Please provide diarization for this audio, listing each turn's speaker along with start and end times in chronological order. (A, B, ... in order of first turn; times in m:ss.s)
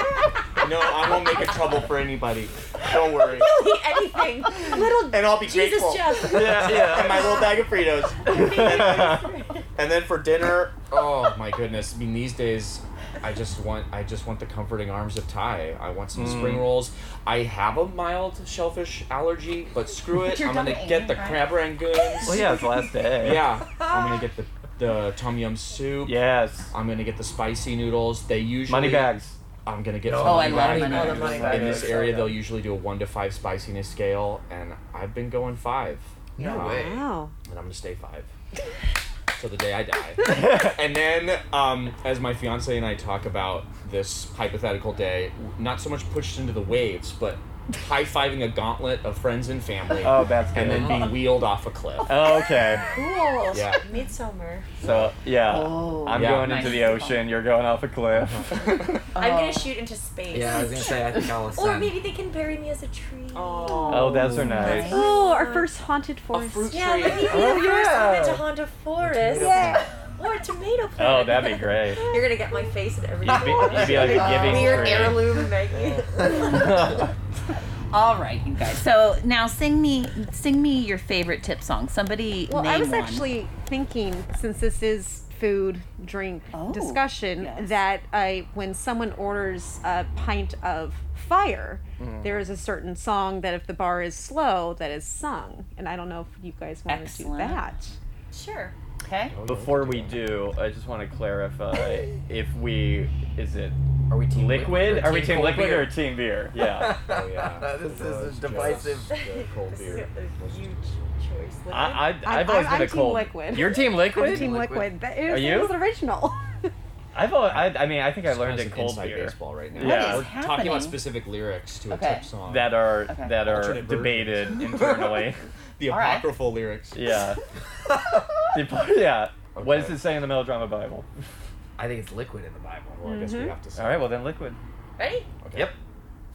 0:00.6-0:03.5 A
0:03.3-0:07.6 B
0:04.8-0:09.2 A
0:06.3-0:07.4 C
0:08.2-0:09.7 B
0:08.3-0:09.2 C
0:09.7-0:22.5 A
0:16.1-0:16.8 C
0:20.2-0:22.9 D
0:22.2-0:23.5 C
0:23.1-0:38.3 A
0:26.0-0:26.7 C
0:28.7-0:29.4 C
0:30.0-0:32.3 E
0:30.2-0:31.9 D
0:30.4-0:32.2 C
0:36.4-0:37.0 E
0:36.6-0:37.3 F
0:39.3-0:52.8 A
0:40.2-0:40.8 C
0:50.0-0:51.2 C
0:50.5-0:51.1 E
0:52.1-0:52.9 C
0:52.5-0:54.7 B
0:53.5-0:53.8 A
0:54.8-0:55.1 A
0:54.8-0:58.6 C
0:55.5-0:57.3 D
0:56.1-0:56.9 A
0:58.3-0:59.1 A
0:59.1-0:59.7 D
0:59.1-1:05.7 B
1:00.3-1:02.0 E
1:03.3-1:04.4 A
1:03.8-1:07.1 F
1:03.9-1:05.0 C
1:04.4-1:05.0 D
1:06.3-1:07.4 A
1:06.7-1:16.6 B
1:07.3-1:08.4 C
1:09.0-1:09.8 E
1:09.3-1:09.9 F
1:11.0-1:12.0 C
1:13.2-1:15.3 C
1:13.3-1:14.9 E
1:14.5-1:15.2 D
1:16.2-1:16.7 D
1:16.4-1:17.1 C
1:17.9-1:23.3 D
1:22.5-1:38.0 F
1:26.5-1:27.7 D
1:36.9-1:37.6 D
1:38.3-1:38.7 B
1:39.0-1:39.3 D
1:39.3-1:40.4 A
1:39.4-1:43.7 C
1:44.1-1:46.0 E
1:44.3-1:47.0 C
1:46.5-1:49.2 E
1:46.9-1:51.0 A
1:49.1-1:52.1 B
1:51.7-1:54.6 C
1:52.2-1:56.7 F
1:54.1-1:55.0 E
1:55.2-1:55.8 C
1:57.1-2:00.4 C
1:57.4-2:05.1 A
1:59.7-2:01.2 D
2:01.9-2:02.3 D
2:02.4-2:05.4 C
2:03.1-2:03.4 D
2:05.8-2:07.0 A
2:05.9-2:06.3 D
2:06.9-2:07.4 C
2:08.5-2:11.1 C
2:09.5-2:10.0 A
2:11.8-2:13.2 E
2:12.9-2:14.1 A
2:13.0-2:13.6 F
2:13.8-2:14.6 C
2:15.0-2:15.3 B
2:15.4-2:15.8 A